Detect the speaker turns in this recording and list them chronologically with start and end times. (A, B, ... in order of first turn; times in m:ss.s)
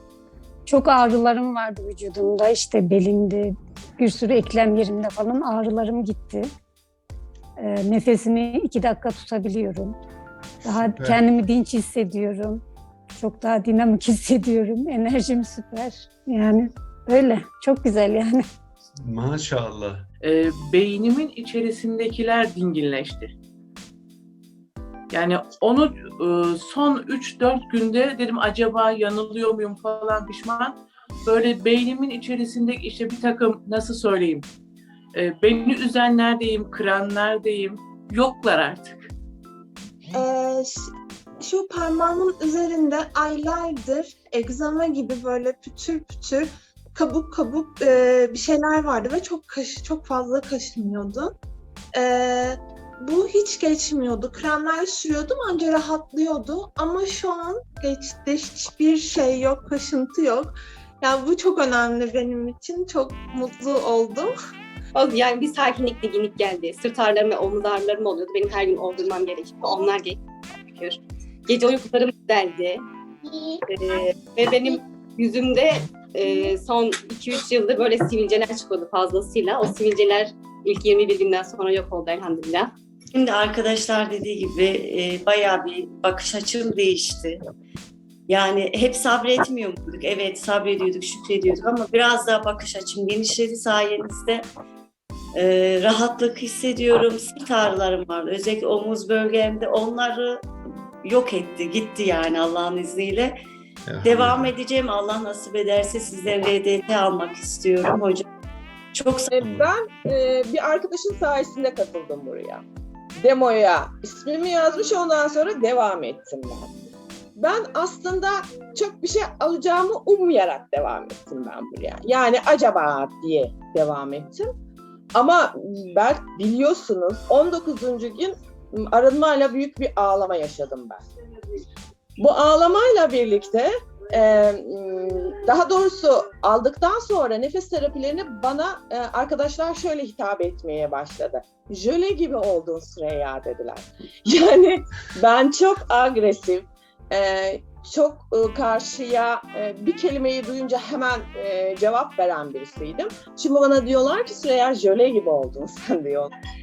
0:00.7-0:06.5 A
0:07.6-0:10.0 A
0:10.6-0:11.2 B
0:10.6-0:12.6 A
0:13.2-0:18.4 A
0:19.0-0:20.1 B
0:20.3-0:23.3 C
0:25.1-0:30.7 C
0:31.3-0:34.4 C
0:35.2-0:38.9 C
0:40.2-0:40.8 D
0:41.4-0:51.3 D
0:52.0-1:04.3 D
1:04.9-1:10.2 E
1:10.8-1:12.8 E
1:13.7-1:22.7 E
1:23.1-1:27.4 F
1:28.3-1:34.4 F
1:35.4-1:40.4 F
1:41.0-1:43.4 F
1:43.9-1:44.6 B
1:44.0-1:48.2 F
1:48.9-1:49.3 F
1:49.3-1:52.6 G
1:49.4-1:49.7 B
1:53.2-1:56.7 G
1:57.4-2:04.5 G
2:05.2-2:11.0 G
2:12.2-2:36.3 G